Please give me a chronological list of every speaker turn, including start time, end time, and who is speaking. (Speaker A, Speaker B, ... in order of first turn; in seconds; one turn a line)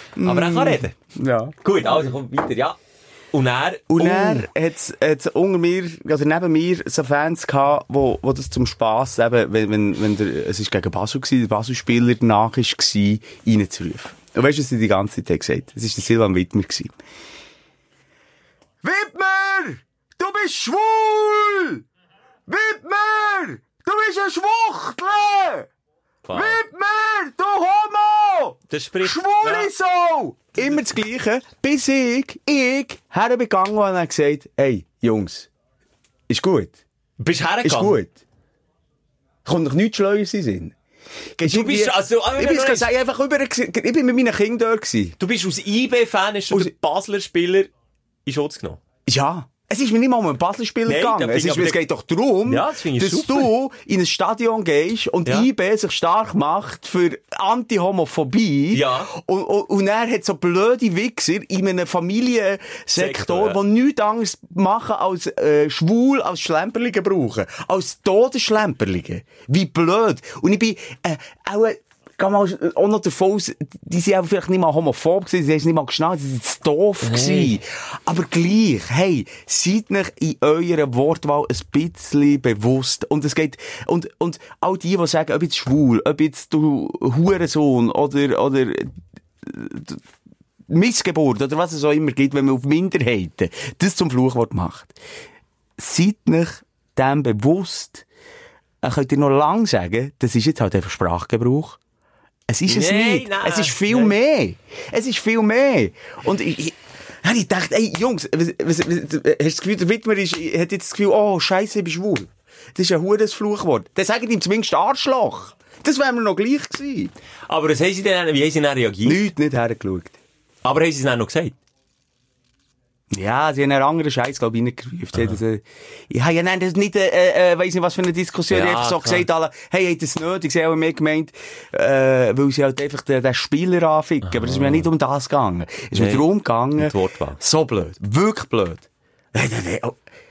Speaker A: 0.2-1.5
Speaker B: 0.2-1.0
Speaker B: 1.6-2.8
Speaker B: 3.3-4.5
Speaker A: 3.9-16.9
Speaker A: 18.8-21.8
Speaker A: 22.5-25.7
Speaker B: 26.3-26.6
Speaker A: 26.3-35.5
Speaker B: 28.7-29.7
Speaker A: 36.3-36.8
Speaker B: 37.2-38.0
Speaker A: 37.6-38.2
Speaker A: 39.5-40.8
Speaker A: 41.4-45.2
Speaker B: 41.4-42.9
Speaker B: 45.2-47.7
Speaker B: 48.3-48.8
Speaker A: 49.1-90.0
Speaker B: 50.9-51.8
Speaker B: 52.5-53.5
Speaker B: 58.7-59.1
Speaker B: 63.0-63.6
Speaker B: 77.0-77.5
Speaker A: 90.7-95.0
Speaker A: 95.8-98.0
Speaker A: 98.8-101.8
Speaker A: 102.5-117.1
Speaker B: 102.7-104.2
Speaker B: 117.5-119.2
Speaker A: 119.0-120.2
Speaker B: 120.6-121.5
Speaker A: 123.1-140.0
Speaker B: 128.5-129.3
Speaker B: 134.3-134.9
Speaker B: 135.9-137.4